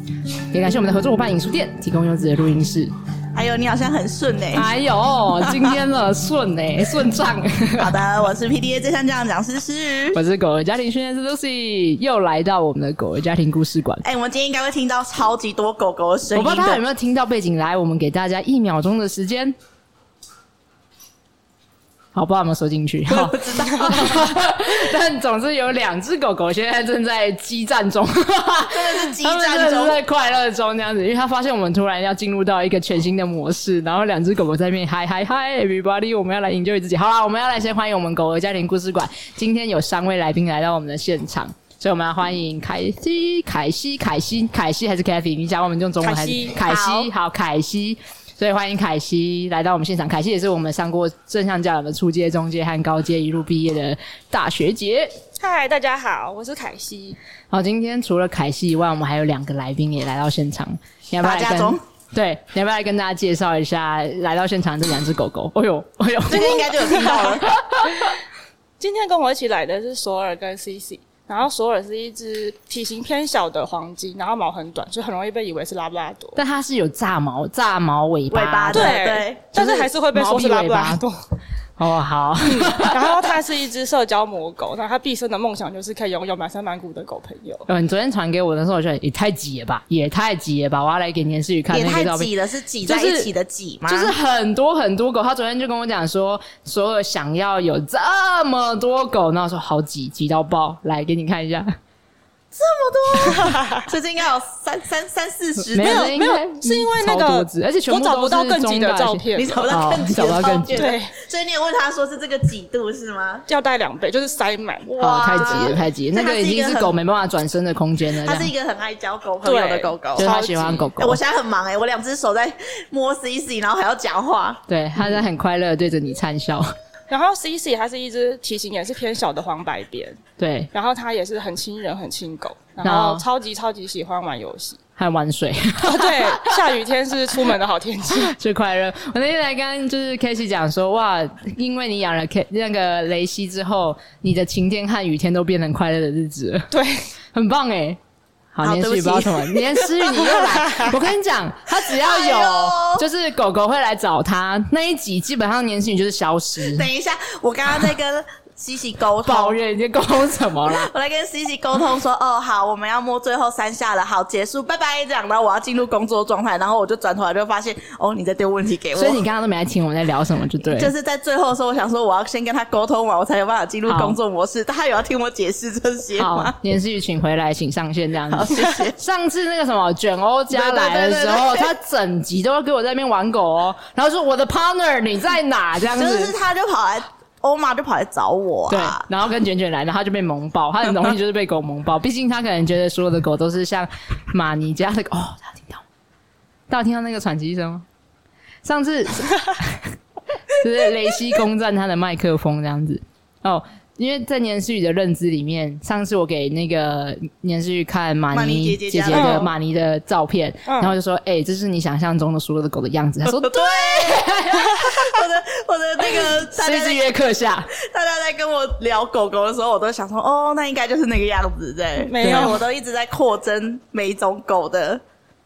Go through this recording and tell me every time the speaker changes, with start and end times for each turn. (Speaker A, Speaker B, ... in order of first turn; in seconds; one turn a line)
Speaker A: 0.5-2.9
Speaker B: 3.4-4.7
Speaker A: 4.5-8.0
Speaker B: 7.8-10.2
Speaker A: 10.1-14.0
Speaker B: 14.0-16.8
Speaker A: 16.3-19.6
Speaker A: 22.1-55.1
Speaker B: 23.1-24.3
Speaker B: 28.7-30.0
Speaker C: 46.0-46.6
Speaker B: 46.6-47.1
Speaker C: 55.4-57.2
Speaker A: 57.5-68.2
Speaker B: 61.2-61.8
Speaker B: 66.3-67.5
Speaker C: 67.0-67.2
Speaker C: 68.8-76.4
Speaker A: 76.4-79.0
Speaker B: 78.3-79.5
Speaker C: 78.7-81.2
Speaker A: 79.5-81.0
Speaker A: 81.8-83.2
Speaker C: 82.4-87.7
Speaker A: 87.7-92.3
Speaker B: 91.7-94.2
Speaker C: 92.9-93.3
Speaker A: 93.9-101.8
Speaker C: 102.8-103.9
Speaker B: 103.1-106.1
Speaker A: 105.6-110.9
Speaker C: 105.8-109.6
Speaker B: 109.4-113.5
Speaker C: 110.7-111.2
Speaker C: 113.5-115.7
Speaker B: 114.9-116.9
Speaker A: 115.0-118.5
Speaker B: 118.2-124.6
Speaker C: 119.4-120.9
Speaker A: 120.2-121.2
Speaker A: 124.7-126.7
Speaker C: 127.1-130.2
Speaker A: 130.4-130.7
Speaker C: 130.7-134.8
Speaker A: 132.8-133.2
Speaker A: 135.0-136.8
Speaker C: 135.8-138.3
Speaker A: 138.1-146.7
Speaker C: 146.7-147.1
Speaker A: 147.3-148.0
Speaker A: 148.5-156.9
Speaker B: 148.6-150.9
Speaker B: 151.9-153.1
Speaker B: 156.7-159.6
Speaker A: 159.2-160.9
Speaker B: 160.4-169.2
Speaker A: 169.0-170.9
Speaker B: 170.7-176.6
Speaker A: 173.9-174.2
Speaker A: 176.2-186.4
Speaker B: 178.3-178.9
Speaker B: 180.5-181.7
Speaker B: 185.9-189.1
Speaker A: 188.7-195.8
Speaker A: 196.7-197.8
Speaker A: 198.6-199.9
Speaker A: 200.5-215.1
Speaker B: 208.3-209.5
Speaker C: 209.1-209.5
Speaker C: 210.7-210.9
Speaker B: 213.3-225.0
Speaker A: 216.2-217.7
Speaker C: 222.0-222.6
Speaker A: 222.2-222.6